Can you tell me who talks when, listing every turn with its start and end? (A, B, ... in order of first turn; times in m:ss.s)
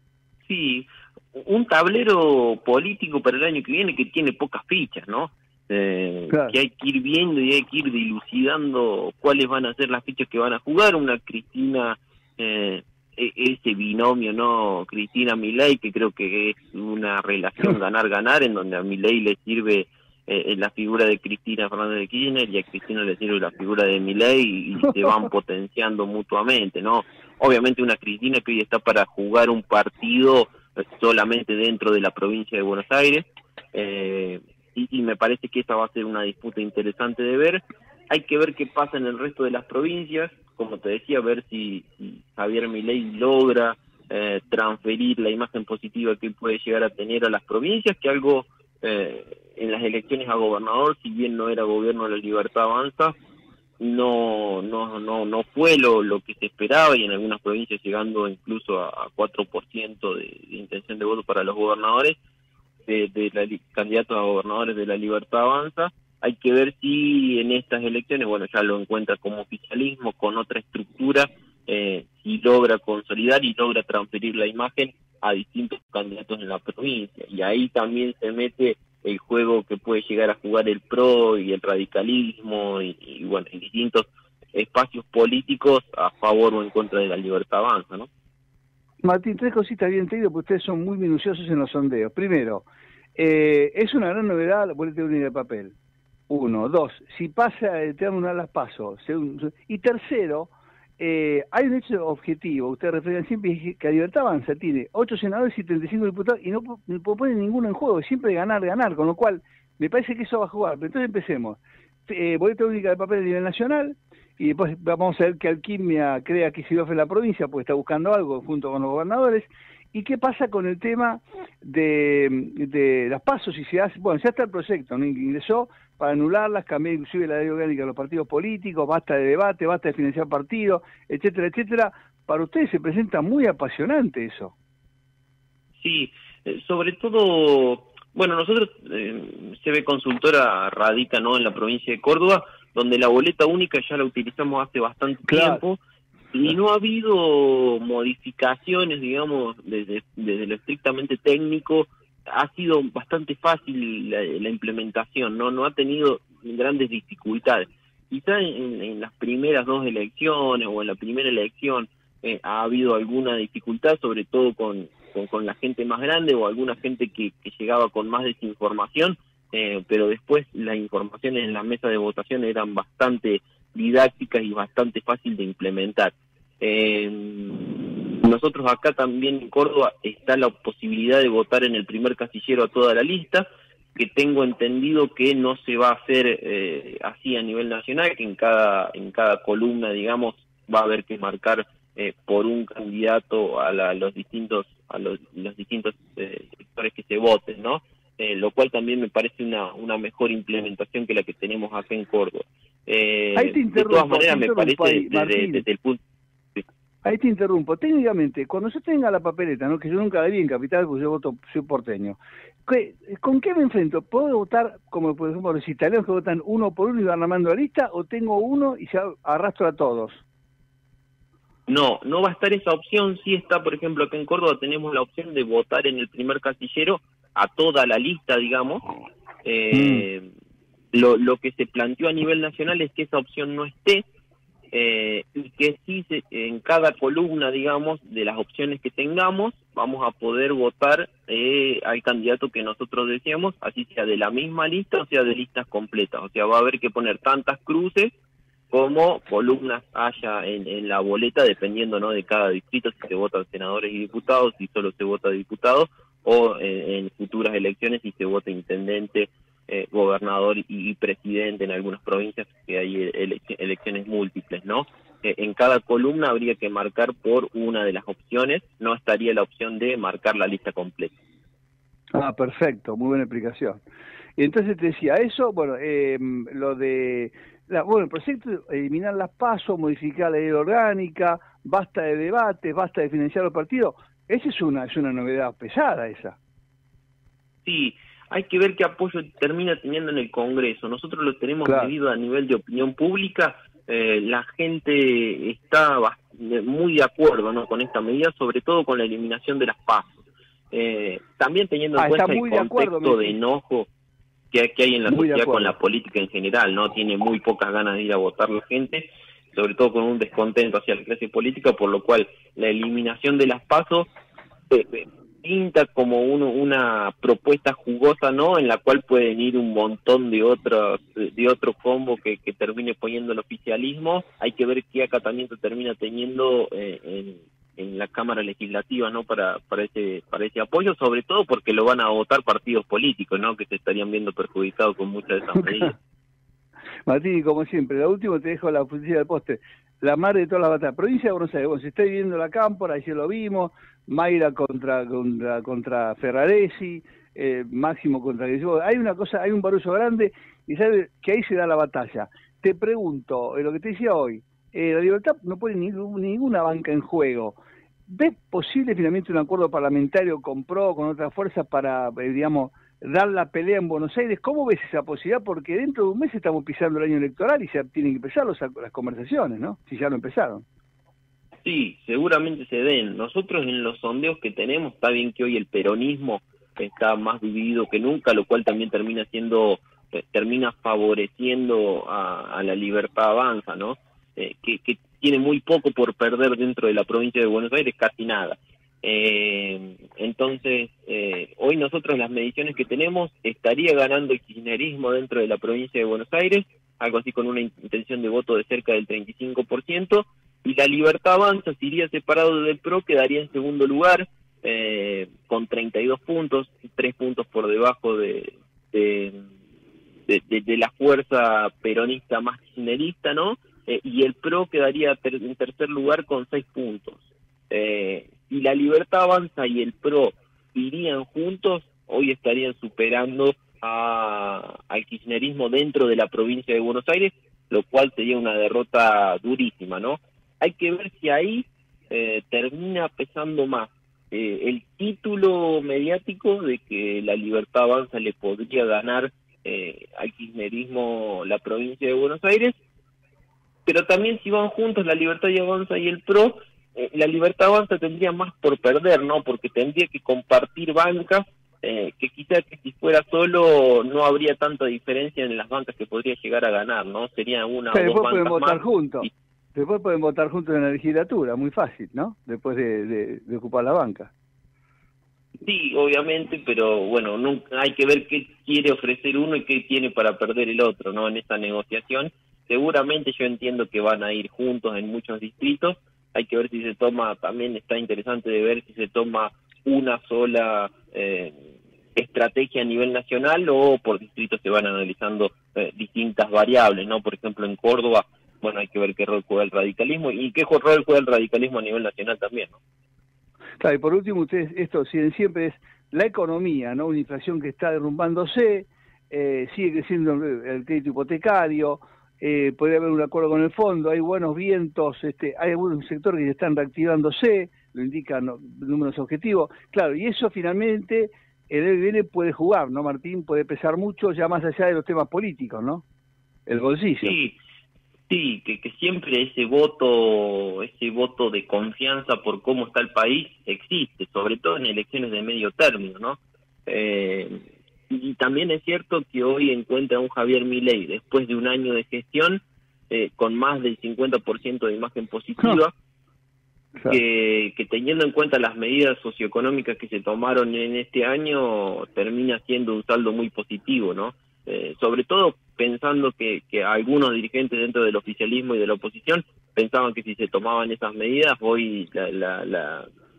0:00.4-0:53.1 A
0:53.8-1:02.2 A
1:02.9-1:28.1 A
1:29.0-1:35.8 B
1:36.3-2:14.5 B
2:15.8-2:25.8 A
2:25.3-2:25.6 B
2:26.3-3:26.0 A
3:23.4-3:25.6 B
3:27.0-3:40.2 B
3:41.7-3:48.8 A
3:49.4-3:50.3 A
3:49.7-3:50.0 B
3:50.9-3:54.0 A
3:54.7-4:08.1 A
4:08.7-4:31.1 A
4:32.1-4:33.8 B
4:34.4-4:46.4 B
4:47.6-5:00.1 A
4:51.6-4:51.9 B
5:00.7-5:03.9 A
5:02.0-5:03.4 B
5:04.5-5:14.1 A
5:05.1-5:05.8 B
5:14.7-5:36.0 A
5:35.6-5:35.9 B
5:37.0-6:10.6 B
6:11.6-6:49.4 A
6:50.3-7:22.8 A
7:23.9-7:39.3 A
7:37.9-7:44.3 B
7:45.6-8:12.8 A
8:13.8-8:36.0 B
8:36.7-8:37.3 B
8:37.2-8:37.6 A
8:38.3-8:55.9 A
8:57.1-9:13.1 A